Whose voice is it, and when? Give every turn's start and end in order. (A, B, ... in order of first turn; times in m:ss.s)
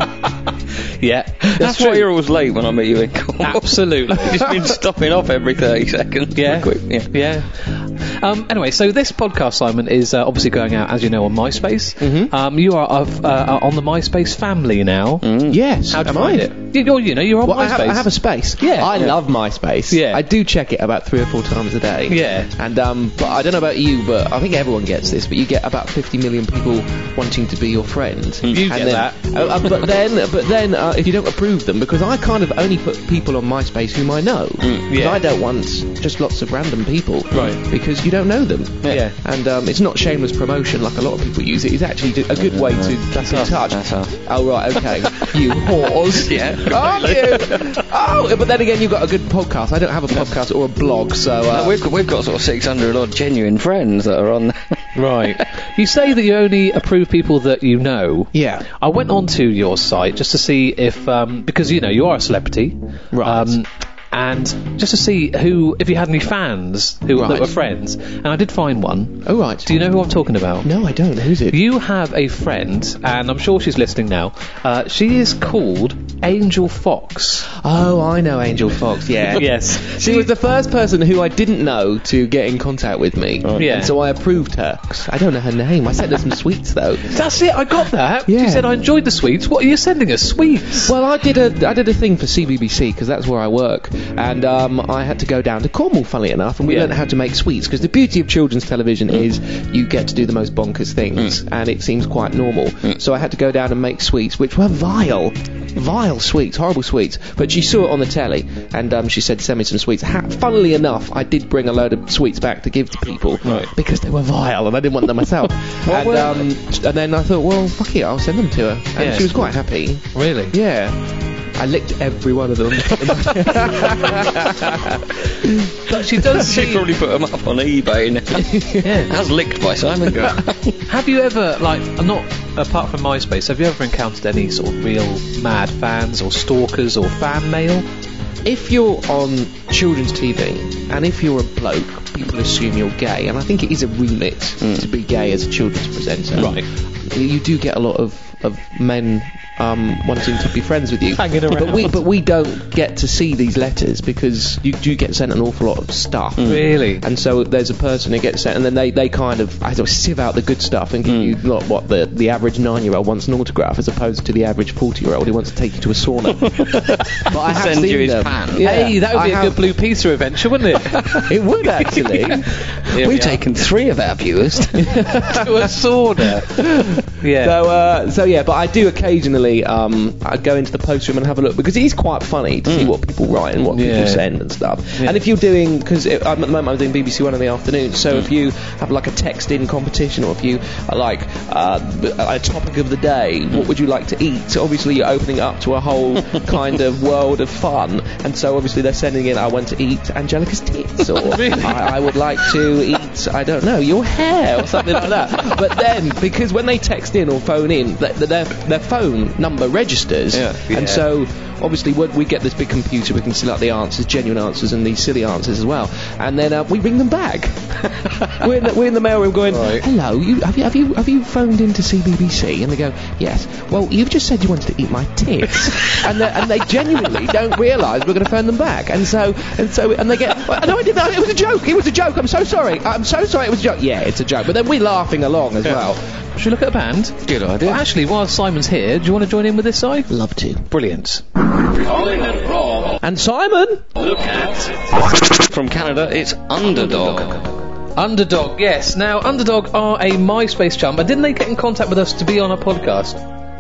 0:01.0-0:02.1 A
0:01.6-0:07.1 B
0:03.4-0:04.4 A
0:06.3-0:19.1 A
0:12.0-0:12.3 C
0:15.2-0:15.6 B
0:15.5-0:16.5 C
0:17.4-0:51.8 C
0:19.9-0:20.2 A
0:22.1-0:22.5 A
0:28.5-0:29.4 A
0:34.9-0:35.2 A
0:37.3-0:37.6 B
0:38.9-0:39.2 A
0:42.4-0:44.9 B
0:43.2-0:43.5 A
0:46.2-0:47.7 B
0:50.1-0:50.4 B
0:51.5-0:54.9 B
0:55.0-1:10.7 A
0:58.3-0:58.6 C
1:03.1-1:03.6 C
1:07.2-1:07.6 C
1:09.2-1:09.7 C
1:10.6-1:11.6 C
1:11.5-1:17.5 A
1:17.6-1:27.2 C
1:19.4-1:20.3 A
1:23.6-1:24.0 A
1:27.1-1:30.9 A
1:28.3-1:28.7 C
1:30.8-2:01.0 C
1:36.6-1:36.9 A
1:53.4-1:53.7 A
1:55.8-1:56.5 B
1:59.0-1:59.5 A
2:00.1-2:00.5 A
2:01.6-2:06.0 C
2:05.9-2:06.8 A
2:06.4-2:10.8 B
2:08.3-2:08.8 C
2:08.8-2:09.1 A
2:10.9-2:17.9 A
2:18.4-2:46.5 C
2:24.6-2:24.9 B
2:26.4-2:26.6 A
2:31.2-2:32.0 A
2:36.4-2:37.0 A
2:41.0-2:41.4 B
2:46.5-2:48.7 B
2:47.3-2:49.6 C
2:48.6-2:51.0 A
2:51.3-2:52.5 C
2:52.1-2:53.4 A
2:52.6-2:55.2 B
2:54.8-2:56.6 A
2:57.2-2:57.6 A
2:57.4-3:56.0 C
3:02.6-3:02.9 B
3:03.7-3:04.5 A
3:21.1-3:22.0 A
3:30.3-3:30.6 B
3:30.7-3:31.1 A
3:39.5-3:39.8 A
3:55.6-4:00.1 A
3:57.2-3:57.9 B
4:00.1-4:00.6 C
4:00.7-4:01.2 A
4:03.0-4:03.8 C
4:05.4-4:07.5 B
4:08.0-4:13.2 A